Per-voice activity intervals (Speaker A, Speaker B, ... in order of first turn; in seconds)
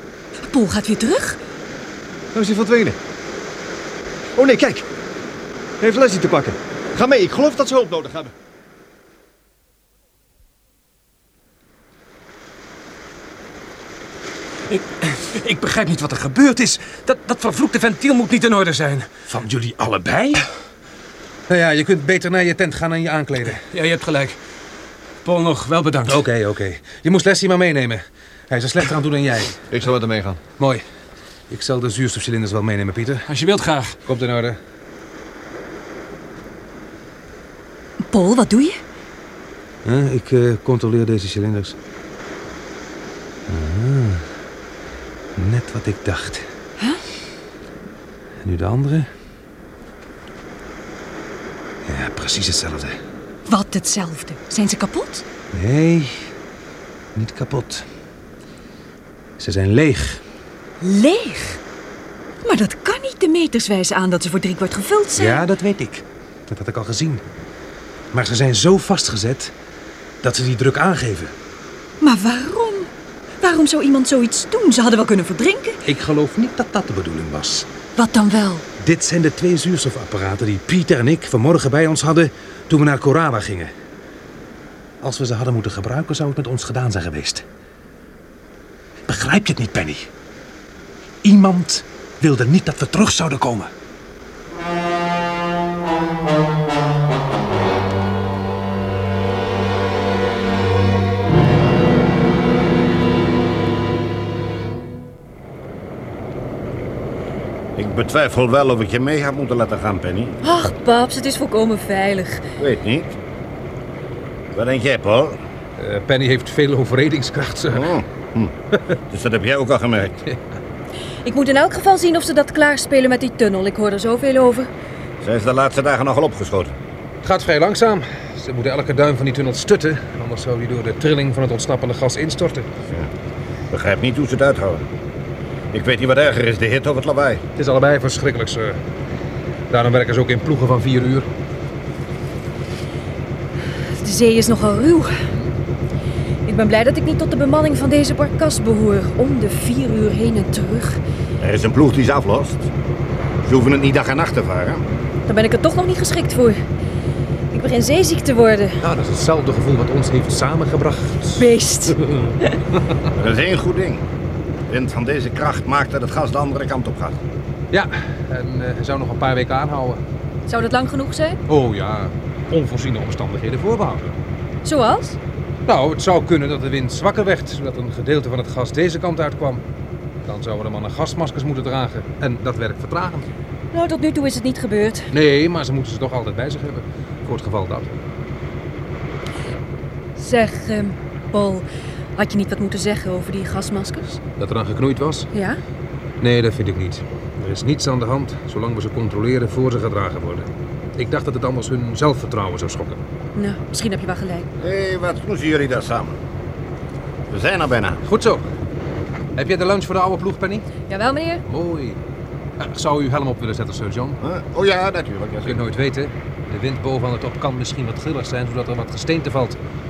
Speaker A: 0.4-1.4, 38.1-38.8, 53.5-55.2, 60.8-61.6, 62.4-65.5, 72.0-75.8, 78.0-78.7, 110.4-112.4, 121.2-124.7, 143.9-145.2, 146.4-151.0, 155.3-156.6, 157.5-158.8, 161.4-162.6, 170.5-171.4, 174.6-175.2, 183.7-185.1, 190.2-194.2, 195.3-195.6, 203.3-204.5, 210.9-211.4
Speaker B: 2.3-3.0, 4.4-4.9, 5.8-8.3, 29.7-30.4
Speaker C: 14.7-19.3, 23.6-24.4, 25.2-26.2, 33.3-34.0
Speaker D: 19.2-20.4, 21.5-23.6, 26.1-29.6, 30.6-30.9, 31.5-33.2, 34.0-34.6, 39.9-41.8, 43.5-44.3, 45.4-46.5, 48.4-49.1, 51.9-53.0, 55.5-56.3, 57.1-57.9, 59.4-60.2, 65.2-67.2, 68.1-69.5, 70.2-71.3, 75.9-77.7, 78.8-83.7, 85.0-87.4, 89.1-90.1, 91.2-93.7, 115.8-117.8, 127.2-132.7, 137.6-138.8, 139.7-141.3, 158.8-162.3, 167.7-170.0, 171.5-174.2, 175.7-179.6, 180.2-183.2, 185.1-187.9, 194.4-195.3, 196.2-203.0, 208.1-208.4, 209.4-210.7, 211.5-212.0, 212.6-214.2, 215.4-219.6
Speaker E: 107.8-110.5, 112.6-113.2, 114.5-115.4, 117.7-118.5, 119.1-120.2, 125.2-126.8, 133.7-134.8, 135.7-137.4, 151.4-152.7, 153.4-154.8, 163.2-164.1, 164.7-167.2, 204.6-206.1, 207.3-208.0, 214.2-215.6